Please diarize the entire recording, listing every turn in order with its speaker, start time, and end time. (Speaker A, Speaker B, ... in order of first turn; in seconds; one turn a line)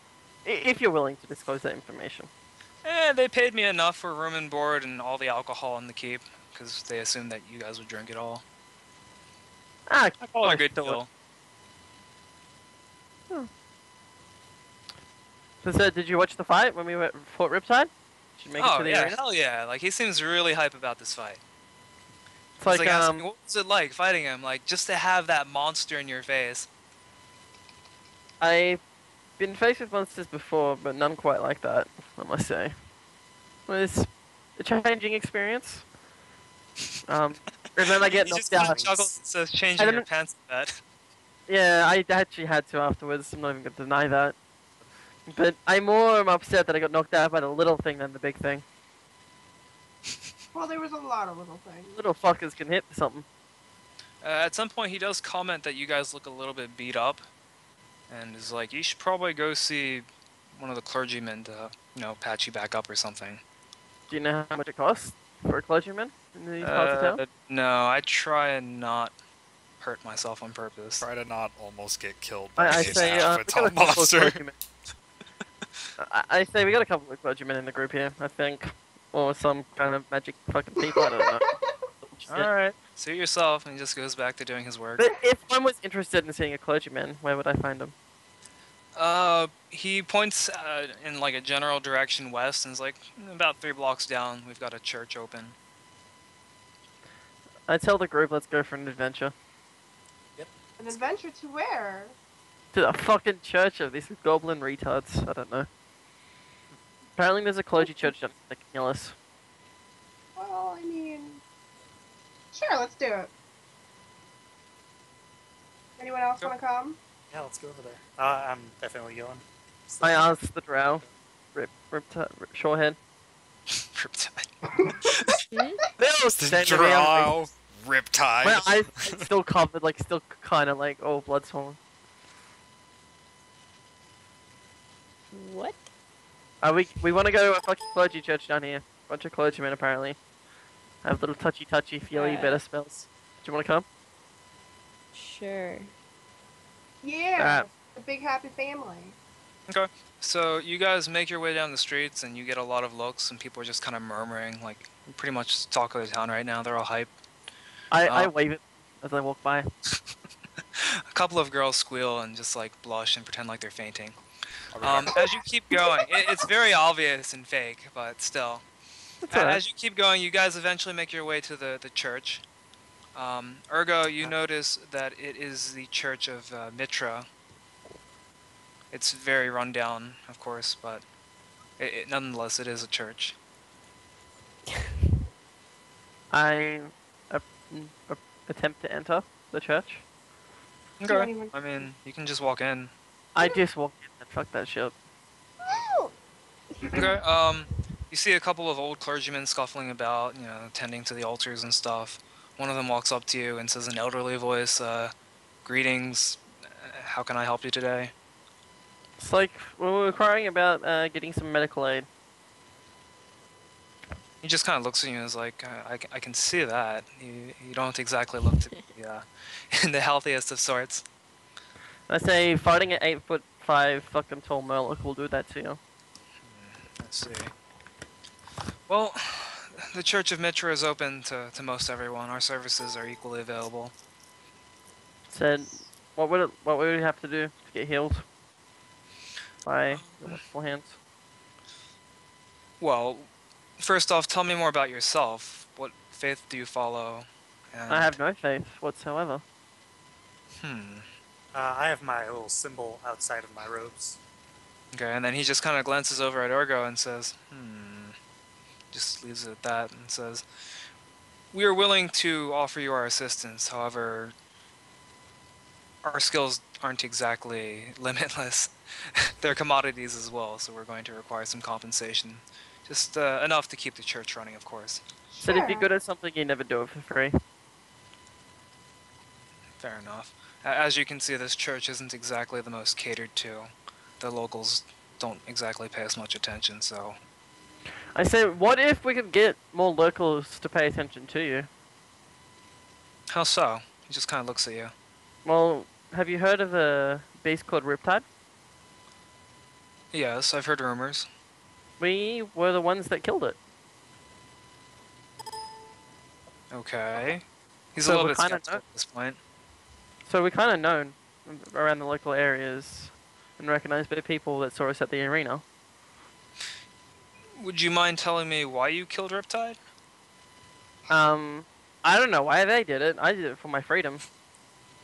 Speaker A: 0.4-2.3
Speaker B: 2.8-8.4
Speaker A: 9.9-11.0
Speaker B: 10.2-11.1
Speaker A: 15.6-19.2
Speaker B: 18.6-21.4
Speaker A: 22.6-23.2
Speaker B: 22.6-26.7
Speaker A: 28.4-28.8
Speaker A: 29.4-32.7
Speaker A: 33.7-35.9
Speaker A: 37.1-39.0
Speaker B: 37.8-40.8
Speaker C: 38.6-39.1
Speaker A: 39.8-40.0
Speaker A: 41.5-44.4
Speaker A: 45.3-48.6
Speaker D: 50.5-52.0
Speaker A: 51.9-53.2
Speaker B: 54.2-57.2
Speaker B: 58.1-63.4
Speaker A: 64.1-67.2
Speaker B: 66.6-69.1
Speaker B: 69.8-71.0
Speaker E: 71.0-74.4
Speaker A: 72.6-74.5
Speaker B: 72.7-73.2
Speaker A: 76.0-81.4
Speaker D: 80.8-81.9
Speaker A: 82.0-82.5
Speaker B: 82.3-85.0
Speaker A: 85.0-87.9
Speaker B: 88.9-95.5
Speaker A: 97.7-99.3
Speaker D: 100.8-102.1
Speaker A: 102.7-105.7
Speaker A: 107.2-109.2
Speaker D: 110.4-111.4
Speaker D: 112.5-113.3
Speaker D: 116.0-117.0
Speaker C: 117.3-121.1
Speaker A: 120.0-121.0
Speaker A: 121.5-123.0
Speaker B: 123.8-124.5
Speaker B: 125.1-125.4
Speaker F: 125.5-125.8
Speaker A: 126.0-127.3
Speaker E: 126.4-129.3
Speaker A: 128.4-131.8
Speaker F: 135.3-135.9
Speaker A: 136.6-140.2
Speaker A: 141.0-143.8
Speaker F: 142.1-142.6
Speaker F: 145.1-145.9
Speaker D: 147.0-149.2
Speaker A: 147.4-147.7
Speaker B: 149.7-157.1
Speaker A: 157.9-159.7
Speaker B: 158.0-158.3
Speaker B: 160.8-164.2
Speaker E: 164.7-165.1
Speaker B: 164.8-168.6
Speaker A: 169.2-169.6
Speaker B: 169.3-172.4
Speaker B: 173.1-177.3
Speaker B: 178.9-181.0
Speaker B: 181.8-183.4
Speaker A: 186.3-190.0
Speaker B: 191.0-192.9
Speaker D: 191.0-191.9
Speaker A: 193.3-194.9
Speaker D: 195.6-196.1
Speaker D: 196.8-197.2
Speaker B: 196.9-205.1
Speaker B: 205.6-208.1
Speaker A: 209.2-212.1
Speaker B: 214.4-221.0
Speaker A: 222.1-225.8
Speaker B: 226.4-227.5
Speaker B: 228.9-233.9
Speaker A: 235.3-238.2
Speaker A: 239.6-240.9
Speaker B: 239.9-240.4
Speaker B: 242.8-248.2
Speaker A: 247.9-249.4
Speaker B: 250.6-251.1
Speaker C: 251.5-254.2
Speaker B: 254.9-258.1
Speaker B: 258.9-260.4
Speaker B: 261.5-264.3
Speaker B: 266.0-275.0
Speaker D: 275.3-275.9
Speaker A: 275.4-277.3
Speaker B: 279.8-287.2
Speaker A: 288.1-291.7
Speaker B: 293.3-294.9
Speaker A: 295.4-298.2
Speaker B: 300.1-301.3
Speaker A: 302.0-303.6
Speaker B: 306.7-309.4
Speaker A: 308.0-308.8
Speaker A: 310.3-315.6
Speaker B: 317.6-319.8
Speaker A: 321.1-324.2